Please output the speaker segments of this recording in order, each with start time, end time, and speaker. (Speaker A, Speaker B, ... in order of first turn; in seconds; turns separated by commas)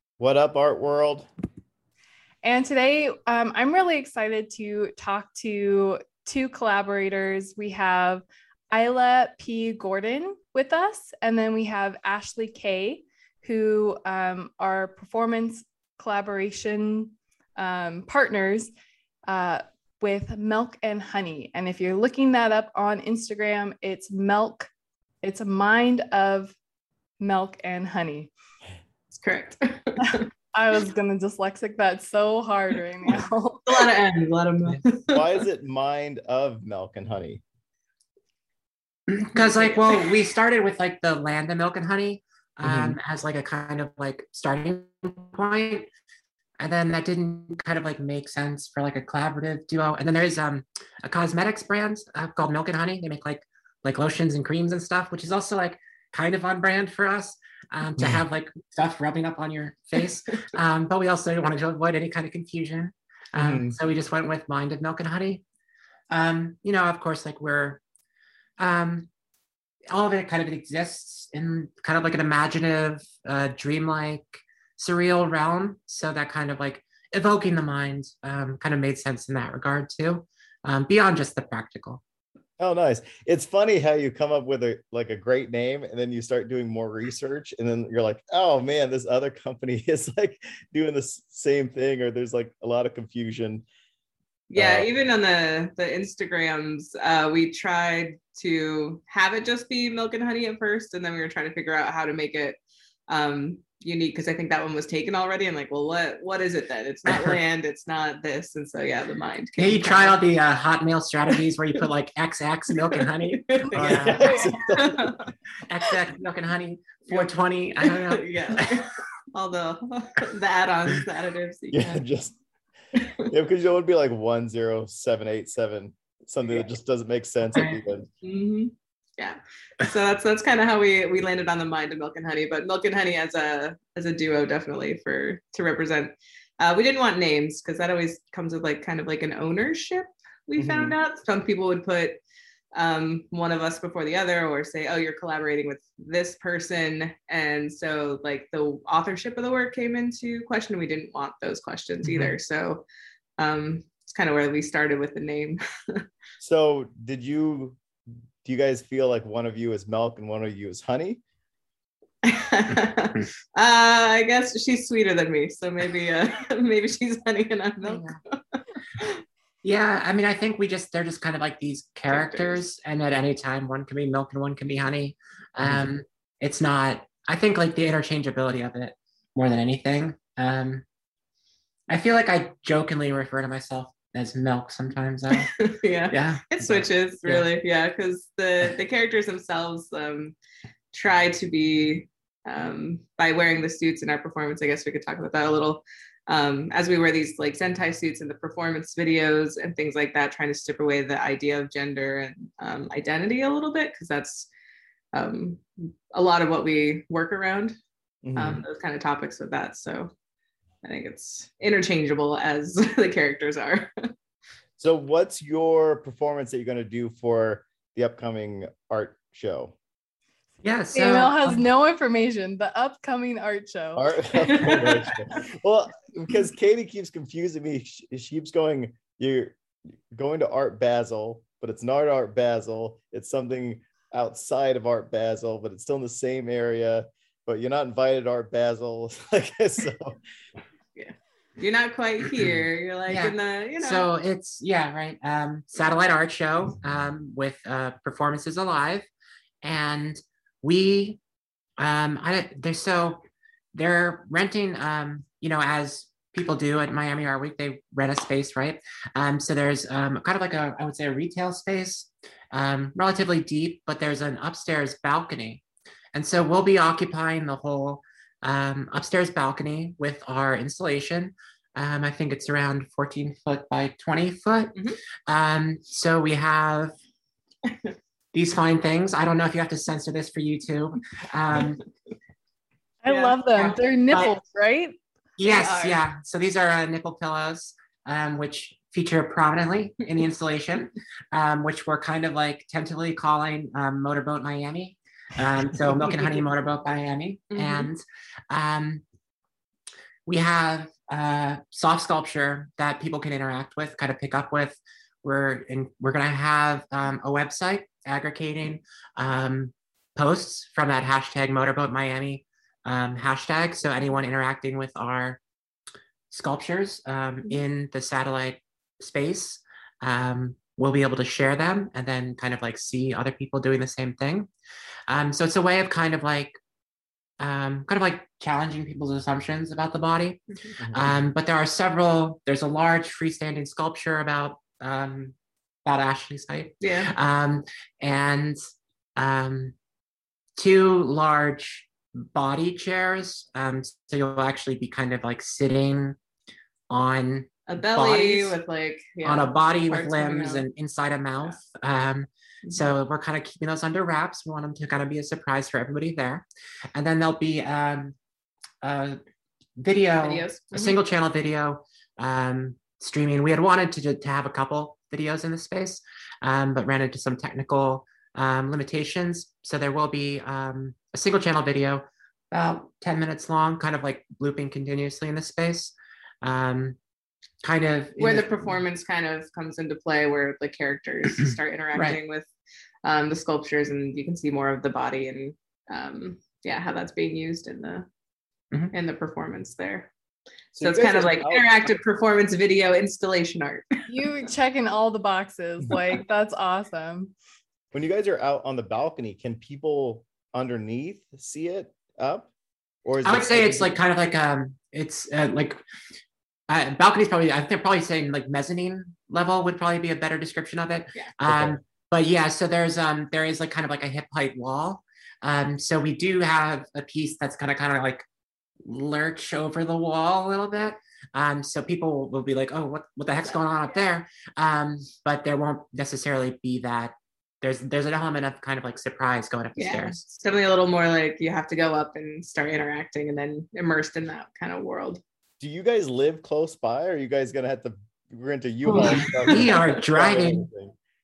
Speaker A: 0.2-1.3, Speaker B: 2.4-18.7, Speaker B: 19.3-24.7, Speaker B: 25.2-26.6, Speaker B: 27.2-28.3, Speaker C: 29.1-30.2, Speaker B: 30.1-33.9, Speaker C: 33.7-35.4, Speaker A: 35.1-37.4, Speaker D: 39.1-45.9, Speaker C: 39.4-40.1, Speaker A: 42.6-43.0, Speaker D: 46.6-65.4, Speaker A: 63.4-63.8, Speaker D: 66.1-67.8, Speaker D: 68.6-69.1, Speaker D: 69.9-82.0, Speaker A: 82.6-93.7, Speaker C: 94.5-102.6, Speaker A: 94.6-94.9, Speaker C: 103.1-110.2, Speaker D: 107.1-107.4, Speaker D: 109.6-114.5, Speaker C: 112.9-115.3, Speaker A: 113.7-115.3, Speaker D: 115.7-118.8, Speaker C: 117.8-122.0, Speaker A: 121.7-122.3, Speaker C: 123.0-123.3, Speaker A: 123.3-128.1, Speaker C: 127.6-142.2, Speaker A: 140.6-141.0, Speaker C: 142.8-152.8, Speaker D: 152.0-152.3, Speaker C: 153.4-156.1, Speaker A: 156.4-157.8, Speaker A: 158.4-161.2, Speaker C: 162.2-169.2, Speaker D: 167.8-168.2, Speaker D: 169.6-180.8, Speaker C: 172.1-172.6, Speaker A: 175.6-175.9, Speaker D: 181.9-185.5, Speaker C: 185.3-190.3, Speaker D: 186.1-187.5, Speaker C: 190.9-204.5, Speaker C: 205.1-207.8, Speaker A: 208.2-208.6, Speaker C: 208.4-210.1, Speaker C: 210.8-214.1, Speaker A: 214.8-219.8, Speaker D: 220.6-221.6, Speaker B: 220.9-224.7, Speaker A: 223.9-229.6, Speaker C: 224.5-225.1, Speaker A: 230.1-240.2, Speaker C: 241.0-244.1, Speaker D: 243.1-249.1, Speaker D: 249.6-251.2, Speaker D: 251.8-253.2, Speaker D: 253.8-265.6, Speaker D: 266.1-276.9, Speaker C: 277.7-277.9, Speaker D: 278.3-281.8, Speaker B: 283.0-285.0, Speaker C: 283.1-283.8, Speaker D: 285.4-299.0, Speaker C: 285.5-286.0, Speaker C: 295.8-296.4, Speaker C: 297.5-297.9, Speaker D: 300.3-315.4, Speaker D: 316.3-324.5, Speaker D: 325.1-326.6, Speaker D: 327.4-335.3, Speaker A: 330.8-331.1, Speaker D: 335.9-338.6, Speaker C: 336.8-337.1, Speaker D: 339.2-339.8, Speaker D: 340.6-346.2, Speaker D: 346.9-348.6, Speaker C: 347.7-350.6, Speaker D: 349.2-358.1, Speaker C: 352.6-352.9, Speaker D: 358.8-359.2, Speaker D: 359.8-377.0, Speaker C: 360.2-361.0, Speaker D: 377.6-378.7, Speaker C: 378.2-382.5, Speaker D: 381.4-382.2, Speaker C: 383.1-388.1, Speaker C: 388.9-390.1, Speaker A: 390.8-391.7, Speaker C: 390.8-394.0, Speaker B: 394.1-397.3, Speaker A: 397.9-402.5, Speaker A: 403.1-404.0, Speaker D: 403.2-405.8, Speaker D: 406.7-418.2, Speaker A: 411.5-411.8, Speaker D: 418.9-430.3, Speaker C: 429.8-435.2, Speaker A: 435.6-440.9, Speaker C: 438.9-440.0, Speaker D: 438.9-440.7